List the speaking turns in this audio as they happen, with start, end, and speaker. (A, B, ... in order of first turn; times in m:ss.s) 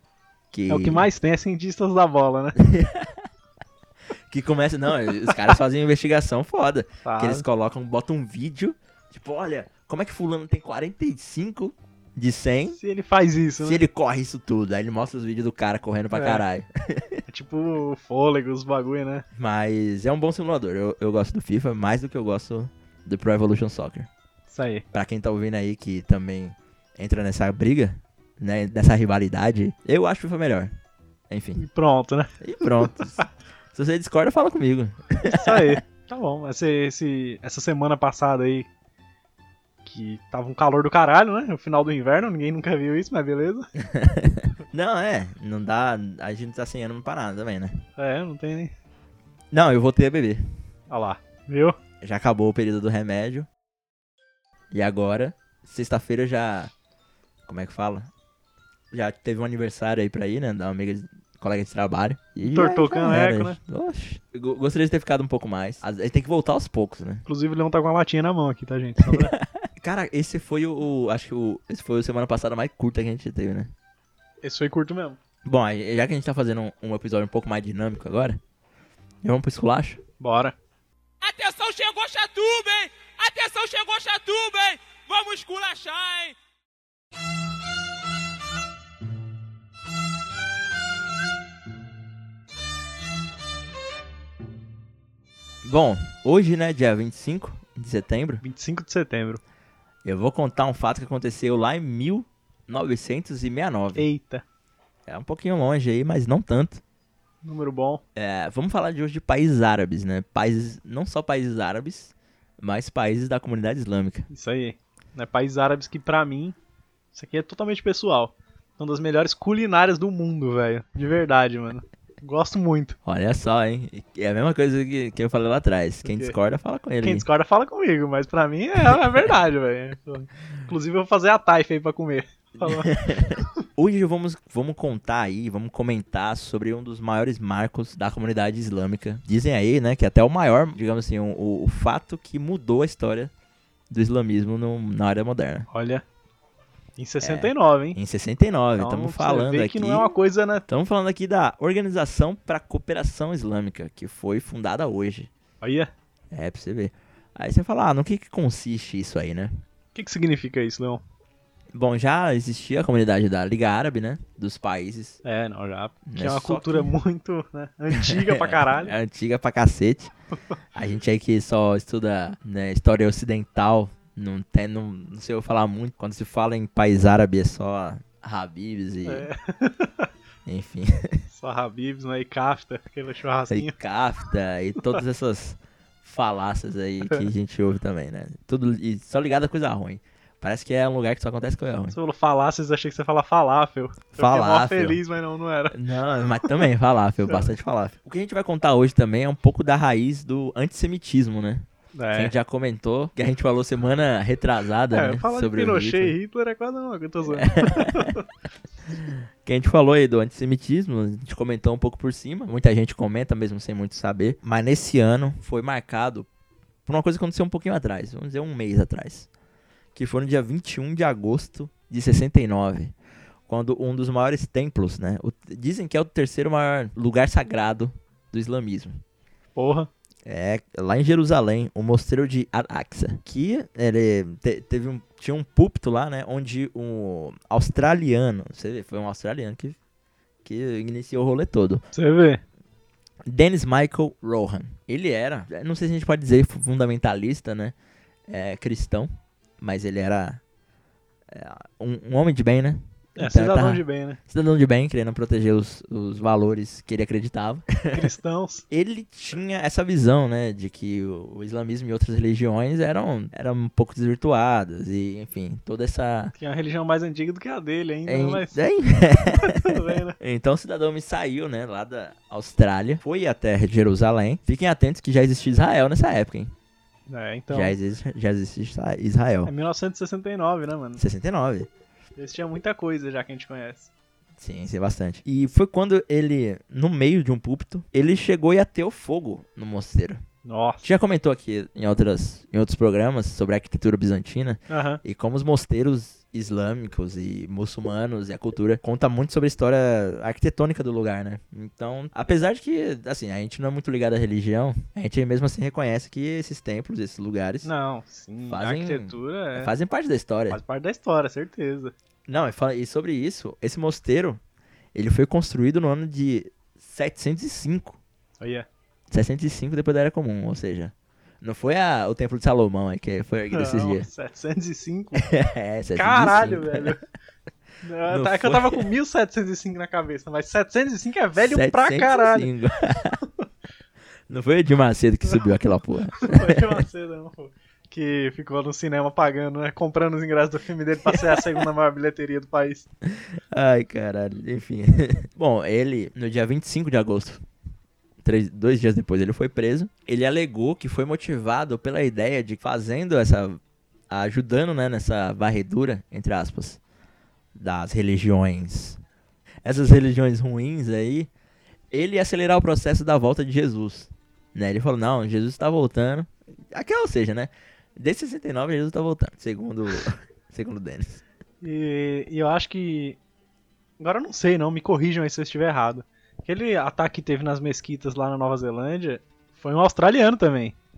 0:00.5-0:01.0 A
0:00.7-0:02.6 B
0:02.6-0:03.2 A
0:04.3-0:12.8 A
0:07.0-0:07.4 B
0:12.7-0:13.8 B
0:13.6-0:17.2 A
0:16.1-0:16.4 B
0:17.3-0:19.2 B
0:19.3-0:24.1 A
0:24.5-0:24.8 B
0:24.9-0:30.7 A
0:31.3-0:31.6 A
0:31.6-0:33.2 B
0:32.4-0:35.8 A
0:35.3-0:38.7 B
0:39.8-0:43.7 B
0:43.8-0:47.8 A
0:48.0-0:48.7 B
0:49.5-0:50.4 A
0:50.9-0:51.8 B
0:52.0-0:53.5 A
0:54.7-0:56.7 A
0:57.4-0:58.1 A
0:58.9-1:07.2 A
1:02.4-1:03.6 B
1:07.2-1:09.3 B
1:09.1-1:13.7 A
1:14.4-1:15.2 B
1:15.4-1:18.4 A
1:19.2-1:20.0 A
1:20.2-1:20.5 B
1:21.2-1:26.3 C
1:35.6-1:38.4 A
1:38.4-1:39.4 B
1:40.0-1:44.0 A
1:43.9-1:44.4 B
1:45.1-1:46.8 A
1:47.4-1:48.0 B
1:48.2-1:54.3 A
1:54.3-1:56.6 B
1:57.1-2:03.0 B
2:03.0-2:07.2 A
2:06.0-2:06.3 B
2:07.0-2:13.5 B
2:12.6-2:23.3 A
2:23.9-2:25.7 A
2:25.7-2:26.0 B
2:27.0-2:28.0 B
2:27.2-2:30.1 A
2:28.8-2:30.6 B
2:30.7-2:35.3 A
2:35.6-2:35.9 B
2:36.3-2:39.5 A
2:39.9-2:41.0 B
2:41.7-2:45.2 A
2:45.2-2:48.9 B
2:46.0-2:46.9 A
2:47.9-2:50.1 A
2:50.7-2:59.3 A
2:59.0-3:00.1 B
3:00.4-3:01.2 A
3:01.3-3:03.7 B
3:03.5-3:12.0 A
3:11.9-3:15.8 B
3:14.1-3:15.0 A
3:15.7-3:26.2 A
3:21.9-3:22.3 B
3:24.9-3:28.2 B
3:27.3-3:28.1 A
3:29.4-3:36.3 A
3:36.8-3:39.3 A
3:39.9-3:42.9 A
3:43.5-3:49.0 A
3:49.6-3:49.9 B
3:50.2-3:59.8 A
4:00.4-4:01.8 A
4:01.9-4:02.4 B
4:03.2-4:07.7 A
4:08.3-4:10.4 A
4:11.3-4:18.1 A
4:13.2-4:14.2 B
4:17.9-4:18.6 B
4:18.7-4:26.3 A
4:26.4-4:28.6 B
4:28.0-4:36.5 A
4:29.2-4:30.2 B
4:37.1-4:37.8 B
4:37.5-4:39.5 A
4:39.4-4:41.0 B
4:41.0-4:41.7 A
4:42.2-4:43.9 B
4:44.4-4:50.2 A
4:50.4-4:50.9 B
4:50.8-5:07.7 A
4:54.7-4:55.0 B
5:07.6-5:09.7 B
5:08.5-5:10.6 A
5:10.5-5:11.9 B
5:12.3-5:14.4 A
5:14.9-5:18.0 A
5:18.4-5:18.7 B
5:19.1-5:24.0 A
5:23.5-5:25.3 B
5:25.2-5:26.9 A
5:25.9-5:27.0 B
5:27.8-5:32.5 B
5:28.1-5:28.9 A
5:31.4-5:33.2 A
5:34.3-5:36.8 A
5:36.2-5:42.8 B
5:41.0-5:41.6 A
5:43.1-5:47.4 A
5:48.2-5:56.8 A
5:57.5-5:59.0 A
5:59.6-6:01.3 A
6:01.9-6:11.2 A
6:11.6-6:13.2 B
6:14.0-6:20.8 B